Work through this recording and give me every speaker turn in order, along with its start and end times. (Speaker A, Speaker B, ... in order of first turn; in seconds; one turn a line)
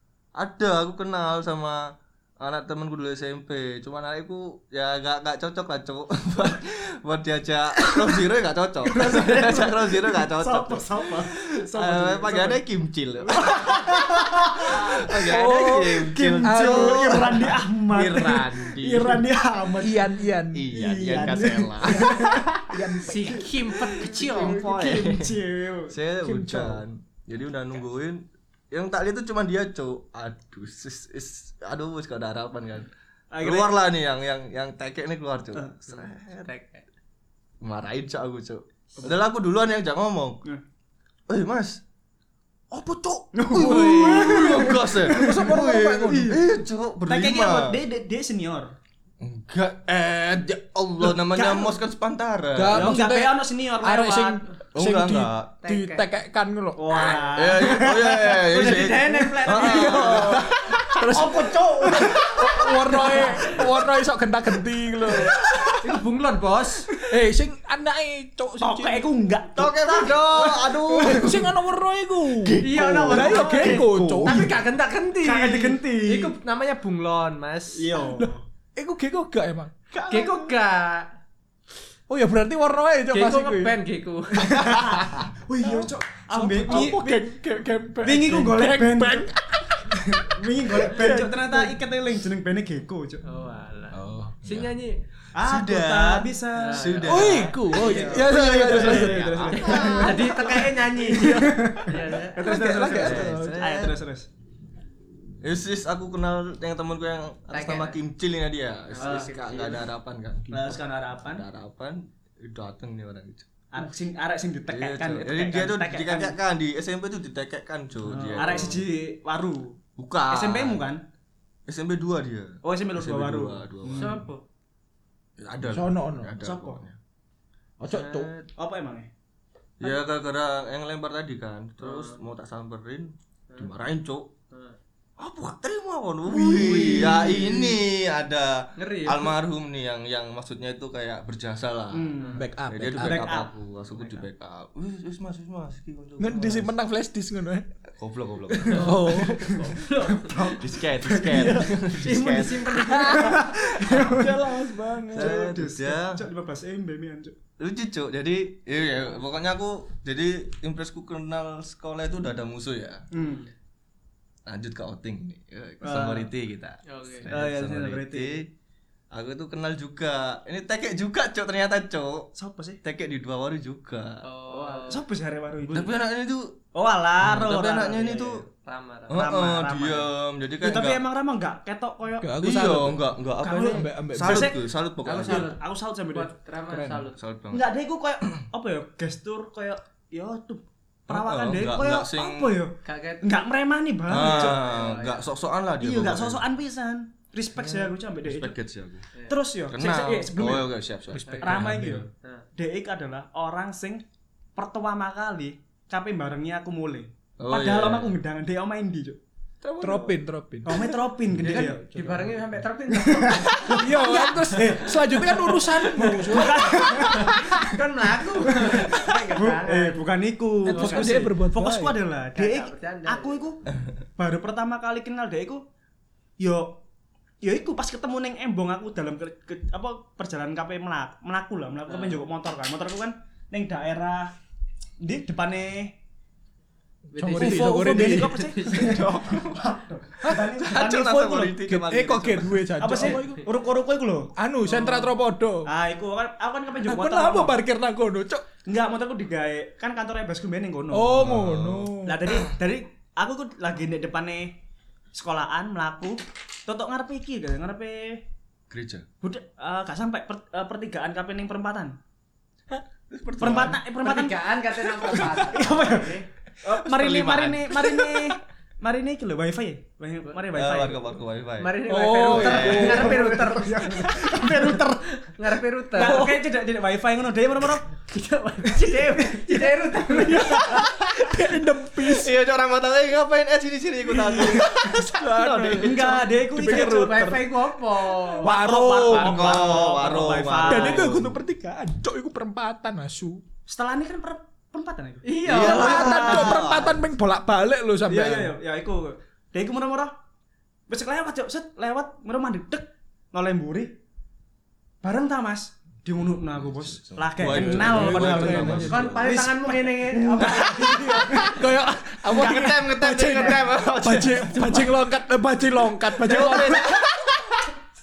Speaker A: 0.3-19.2
Speaker B: 8.8-12.6
Speaker B: 13.2-15.3
Speaker C: 15.1-17.6
Speaker B: 16.0-20.1
Speaker C: 19.8-23.4
Speaker A: 20.5-22.3
Speaker B: 20.7-25.9
Speaker D: 23.0-24.6
Speaker A: 24.1-36.5
Speaker C: 26.2-26.8
Speaker B: 33.3-33.7
Speaker D: 35.9-36.9
Speaker A: 37.6-40.4
Speaker A: 41.3-41.8
Speaker C: 42.7-46.4
Speaker A: 43.1-47.8
Speaker B: 43.3-48.7
Speaker A: 49.2-53.0
Speaker B: 51.2-51.7
Speaker C: 52.5-57.2
Speaker B: 52.7-54.4
Speaker A: 54.7-55.5
Speaker D: 55.6-56.0
Speaker B: 56.8-59.0
Speaker D: 56.9-57.3
Speaker A: 57.3-61.3
Speaker D: 58.5-60.5
Speaker B: 59.5-63.7
Speaker C: 59.6-65.5
Speaker B: 65.1-65.8
Speaker D: 65.8-66.9
Speaker C: 67.0-69.1
Speaker B: 68.6-71.2
Speaker A: 69.5-71.5
Speaker C: 70.9-74.5
Speaker A: 72.4-73.9
Speaker D: 72.6-77.9
Speaker B: 72.6-74.6
Speaker B: 75.2-76.3
Speaker B: 77.8-78.4
Speaker C: 78.2-79.9
Speaker D: 80.0-81.1
Speaker C: 82.1-83.8
Speaker D: 83.1-84.6
Speaker B: 84.4-87.2
Speaker C: 84.4-91.8
Speaker B: 88.0-89.3
Speaker B: 89.9-93.2
Speaker D: 93.2-95.0
Speaker C: 93.9-94.4
Speaker A: 94.4-94.8
Speaker A: 95.3-100.5
Speaker B: 95.3-104.3
Speaker D: 96.5-97.1
Speaker C: 97.0-100.0
Speaker D: 99.5-102.5
Speaker C: 101.1-101.8
Speaker C: 102.3-103.8
Speaker A: 103.0-103.9
Speaker A: 105.4-110.5
Speaker D: 107.5-108.0
Speaker D: 108.9-109.8
Speaker B: 109.0-109.3
Speaker C: 110.5-110.7
Speaker B: 110.5-111.4
Speaker A: 111.3-113.5
Speaker B: 113.7-116.3
Speaker A: 114.7-118.8
Speaker B: 118.1-121.0
Speaker D: 118.3-118.8
Speaker A: 120.0-120.9
Speaker A: 121.7-124.2
Speaker B: 122.6-124.2
Speaker D: 123.9-124.4
Speaker A: 125.4-127.0
Speaker C: 125.7-126.3
Speaker B: 126.4-126.8
Speaker C: 127.8-128.3
Speaker A: 127.9-128.5
Speaker B: 128.6-129.1
Speaker A: 129.8-134.3
Speaker D: 131.8-132.2
Speaker D: 134.5-134.8
Speaker A: 135.2-146.7
Speaker D: 136.5-137.4
Speaker C: 136.6-137.1
Speaker D: 138.8-139.3
Speaker B: 141.9-144.2
Speaker C: 142.3-143.3
Speaker C: 146.2-147.7
Speaker A: 147.9-149.2
Speaker B: 148.5-151.7
Speaker C: 148.7-149.7
Speaker D: 149.4-150.5
Speaker A: 150.6-152.8
Speaker C: 151.3-151.7
Speaker D: 151.9-153.4
Speaker C: 152.7-155.5
Speaker B: 153.1-157.3
Speaker A: 153.9-154.2
Speaker A: 155.1-156.2
Speaker A: 157.6-163.1
Speaker B: 163.1-163.4
Speaker D: 163.1-163.5
Speaker A: 164.4-168.5
Speaker B: 165.8-166.3
Speaker D: 166.8-167.3
Speaker B: 167.3-168.4
Speaker A: 169.1-172.3
Speaker B: 172.3-172.8
Speaker A: 172.8-174.2
Speaker D: 174.2-175.0
Speaker B: 174.5-175.9
Speaker A: 175.7-176.6
Speaker B: 176.7-178.5
Speaker A: 177.2-178.4
Speaker D: 178.6-179.2
Speaker A: 179.1-181.0
Speaker B: 179.1-180.1
Speaker B: 180.6-182.3
Speaker C: 182.2-183.1
Speaker A: 182.4-185.5
Speaker B: 183.4-184.6
Speaker C: 183.6-184.5
Speaker D: 185.0-187.2
Speaker B: 185.2-186.3
Speaker C: 186.7-187.1
Speaker A: 187.1-187.7
Speaker B: 187.5-194.7
Speaker A: 191.1-192.6
Speaker D: 192.8-193.4
Speaker A: 194.1-196.4
Speaker D: 194.1-195.2
Speaker B: 195.8-198.5
Speaker A: 197.6-199.1
Speaker B: 199.3-200.7
Speaker A: 199.7-201.6
Speaker C: 201.1-202.1
Speaker D: 201.2-201.6
Speaker B: 201.4-204.0
Speaker B: 204.6-209.2
Speaker A: 207.4-208.2
Speaker A: 209.6-210.1
Speaker C: 209.8-212.4
Speaker B: 210.6-211.8
Speaker D: 211.4-215.8
Speaker B: 212.9-225.6
Speaker C: 213.7-217.4
Speaker D: 216.4-220.1
Speaker C: 220.6-222.0
Speaker D: 220.7-221.2
Speaker D: 222.3-223.4
Speaker B: 226.4-226.8
Speaker B: 227.4-234.3
Speaker D: 231.9-232.2
Speaker B: 235.0-235.9
Speaker D: 237.1-239.1
Speaker C: 237.2-238.5
Speaker B: 237.4-241.6
Speaker A: 238.8-239.7
Speaker C: 240.2-240.5
Speaker A: 240.3-242.8
Speaker C: 241.6-243.4
Speaker B: 242.8-245.1
Speaker C: 244.4-245.7
Speaker B: 245.6-247.6
Speaker C: 246.8-248.4
Speaker B: 248.6-251.4
Speaker C: 250.9-252.4
Speaker A: 251.1-252.3
Speaker B: 252.0-254.6
Speaker B: 255.1-258.2
Speaker A: 258.7-259.1
Speaker B: 259.2-262.0
Speaker A: 263.1-263.8
Speaker B: 263.4-264.4
Speaker D: 264.0-266.2
Speaker B: 265.0-271.1
Speaker A: 266.6-268.3
Speaker A: 270.5-273.2
Speaker D: 271.6-276.3
Speaker C: 271.9-273.4
Speaker B: 272.3-275.1
Speaker B: 275.9-277.9
Speaker C: 276.0-276.4
Speaker D: 278.0-280.7
Speaker B: 278.7-280.8
Speaker C: 280.2-282.3
Speaker A: 282.0-286.2
Speaker C: 284.1-287.4
Speaker B: 285.7-287.5
Speaker D: 286.6-288.5
Speaker C: 288.3-289.9
Speaker B: 288.4-291.1
Speaker A: 289.1-291.4
Speaker C: 290.6-293.4
Speaker B: 293.7-296.9
Speaker D: 295.2-296.4
Speaker A: 295.4-297.0
Speaker C: 295.6-298.5
Speaker B: 298.1-300.1
Speaker B: 300.9-303.9
Speaker B: 305.0-311.6
Speaker A: 306.5-309.4
Speaker C: 307.4-309.1
Speaker D: 308.8-310.7
Speaker A: 310.4-311.5
Speaker C: 311.0-317.4
Speaker A: 312.2-314.9
Speaker B: 312.4-312.7
Speaker A: 316.2-317.4
Speaker B: 316.2-316.9